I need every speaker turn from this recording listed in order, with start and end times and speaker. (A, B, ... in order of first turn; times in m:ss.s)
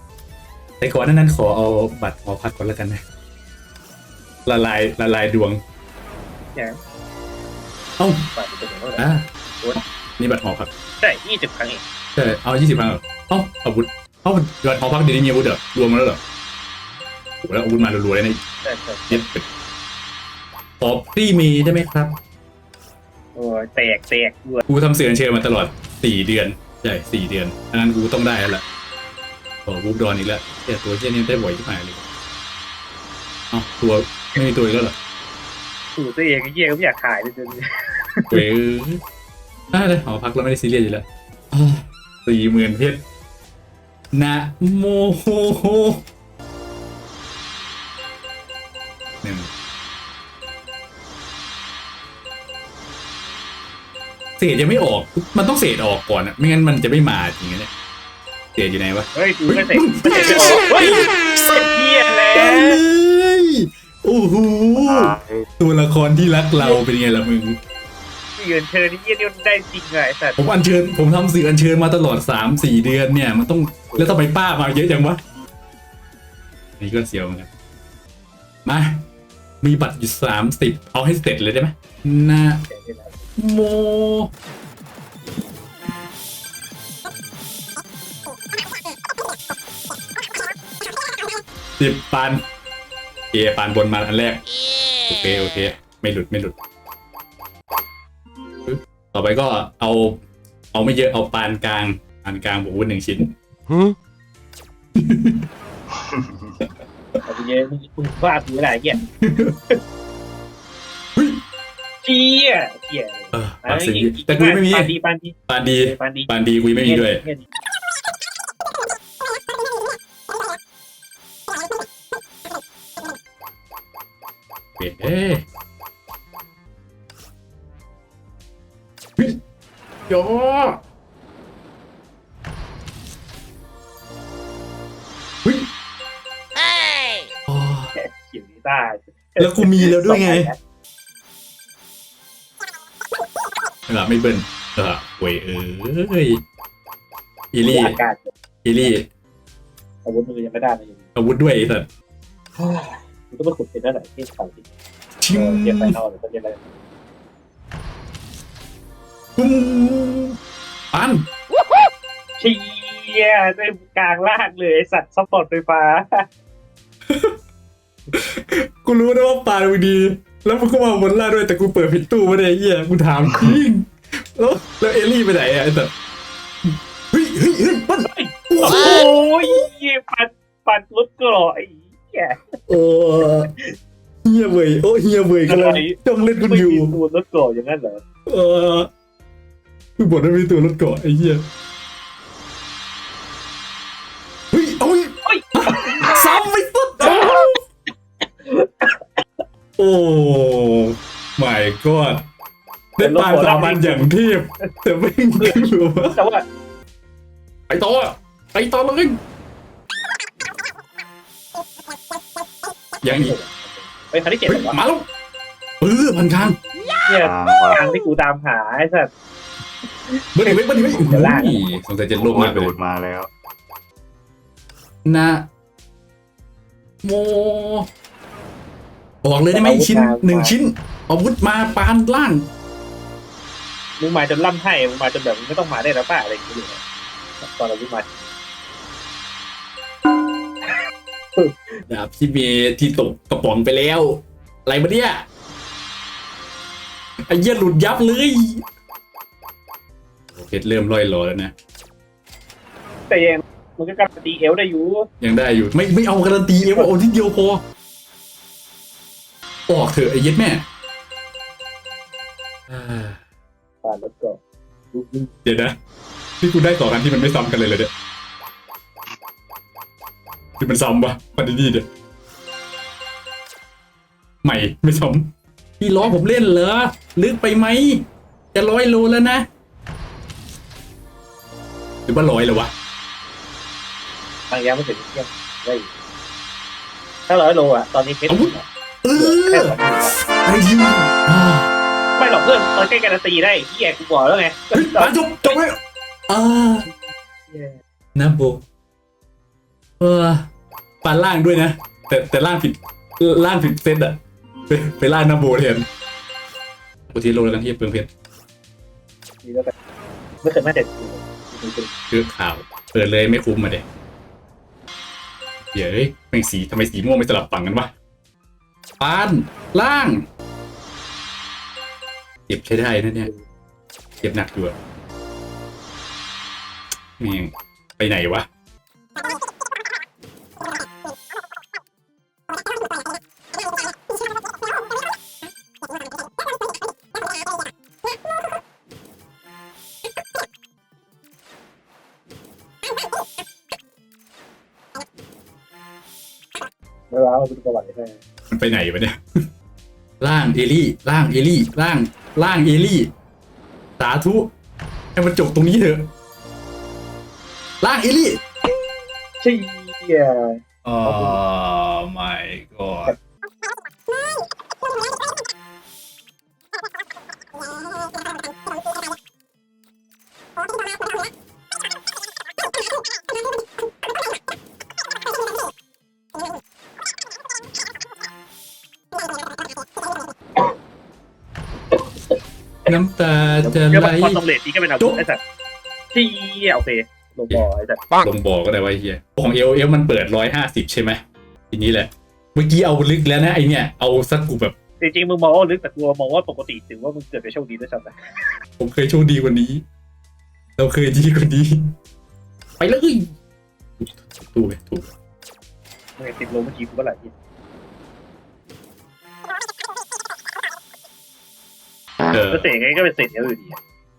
0:00.8-0:03.0 A
0:04.4-0:05.6 A
0:08.0-0:08.3 A
0:08.3-0:09.8 B
0:09.0-0:09.2 A
0:10.2-0:10.7 A
0:11.0-0:11.8 B
0:12.2-0:16.2 A
0:17.4-0:18.4 A
0:18.6-0:19.2 B
0:19.1-0:19.5 A
0:20.8-0:22.2 A
0:23.3-0:24.6 B
0:24.7-0:28.6 A
0:29.6-0:32.0 A
0:33.5-0:34.9 A
0:36.0-0:38.4 B
0:38.3-0:39.0 A
0:39.7-0:43.0 A
0:44.1-0:46.0 A
0:49.2-0:49.5 A
0:54.4-0:57.7 A
0:58.6-1:01.6 A
0:59.1-1:02.8 B
1:02.3-1:07.6 A
1:04.8-1:05.5 C
1:08.4-1:10.4 B
1:10.4-1:15.2 A
1:16.8-1:17.5 A
1:18.6-1:19.0 A
1:19.6-1:22.6 A
1:22.7-1:23.2 B
1:23.4-1:24.3 A
1:31.8-1:32.4 A
1:33.3-1:34.4 A
1:35.1-1:36.5 A
1:38.6-1:40.2 A
1:40.7-1:43.3 A
1:45.0-1:45.4 A
1:47.2-1:49.0 B
1:49.0-1:49.6 A
1:51.2-1:51.4 A
1:52.0-1:56.3 B
1:53.3-1:54.9 A
1:55.5-1:57.2 A
1:56.8-1:57.5 B
2:04.8-2:05.4 A
2:10.1-2:10.8 A
2:15.4-2:15.7 A
2:17.5-2:17.9 A
2:18.0-2:20.6 B
2:19.4-2:20.5 A
2:23.9-2:26.4 A
2:27.5-2:28.0 A
2:27.6-2:28.3 B
2:28.6-2:29.1 A
2:30.0-2:31.0 B
2:31.1-2:31.9 A
2:32.6-2:34.6 B
2:35.2-2:35.9 A
2:35.3-2:36.6 B
2:39.4-2:40.4 A
2:40.9-2:41.3 A
2:42.4-2:46.2 B
2:47.1-2:47.4 A
2:48.1-2:55.9 A
2:56.6-2:59.5 A
2:58.0-3:02.5 B
3:02.7-3:03.5 A
3:04.2-3:07.0 A
3:05.4-3:08.0 B
3:08.3-3:08.9 A
3:10.0-3:11.4 A
3:14.5-3:17.5 A
3:15.2-3:16.2 B
3:17.0-3:17.4 B
3:18.4-3:19.1 B
3:19.8-3:22.2 A
3:23.0-3:26.2 A
3:23.0-3:24.1 B
3:25.4-3:26.4 B
3:27.7-3:29.2 A
3:33.0-3:33.3 A
3:33.0-3:34.8 B
3:34.5-3:35.1 A
3:35.8-3:36.6 A
3:37.0-3:39.1 B
3:37.2-3:37.8 C
3:40.3-3:42.7 A
3:40.4-3:41.8 B
3:42.1-3:43.3 C
3:45.0-3:45.5 A
3:47.0-3:47.9 A
3:49.2-3:52.5 A
3:49.5-3:50.5 B
3:54.0-3:56.8 B
3:57.4-3:58.3 B
4:01.4-4:01.7 B
4:01.9-4:05.2 A
4:07.3-4:08.6 A
4:10.3-4:11.5 A
4:13.1-4:15.1 B
4:15.2-4:17.6 A
4:16.6-4:16.9 B
4:19.7-4:20.6 A
4:22.7-4:23.2 A
4:23.8-4:24.4 B
4:24.9-4:25.3 B
4:25.4-4:25.8 A
4:26.4-4:27.9 A
4:30.6-4:31.8 A
4:34.4-4:35.3 A
4:35.8-4:39.4 A
4:42.1-4:42.7 A
4:44.5-4:45.9 B
4:47.3-4:50.2 B
4:48.3-4:51.7 A
4:52.2-4:55.6 B
4:54.7-4:56.9 A
4:57.5-4:57.8 B
4:58.1-4:58.6 A
5:00.0-5:00.5 A
5:01.0-5:05.9 A
5:07.1-5:08.1 A
5:09.4-5:09.7 B
5:10.4-5:11.9 B
5:12.1-5:13.8 A
5:15.7-5:17.9 A
5:19.0-5:20.2 A
5:22.5-5:23.3 A
5:24.2-5:24.7 A
5:27.2-5:28.5 A
5:47.1-5:48.2 B
5:48.5-5:49.2 A
5:50.2-5:53.1 A
5:54.0-5:54.5 A
5:55.2-5:56.1 A
5:57.8-5:58.4 A
5:59.4-6:01.4 B
6:00.8-6:03.2 A
6:22.9-6:24.4 A
6:23.6-6:25.4 B
6:26.1-6:28.0 B
6:28.2-6:34.8 A
6:35.0-6:38.2 B
6:38.8-6:39.8 A
6:40.8-6:41.9 A
6:42.8-6:43.2 A
6:44.0-6:45.1 A
6:46.2-6:47.3 B
6:52.3-6:52.7 A
6:52.5-6:53.8 B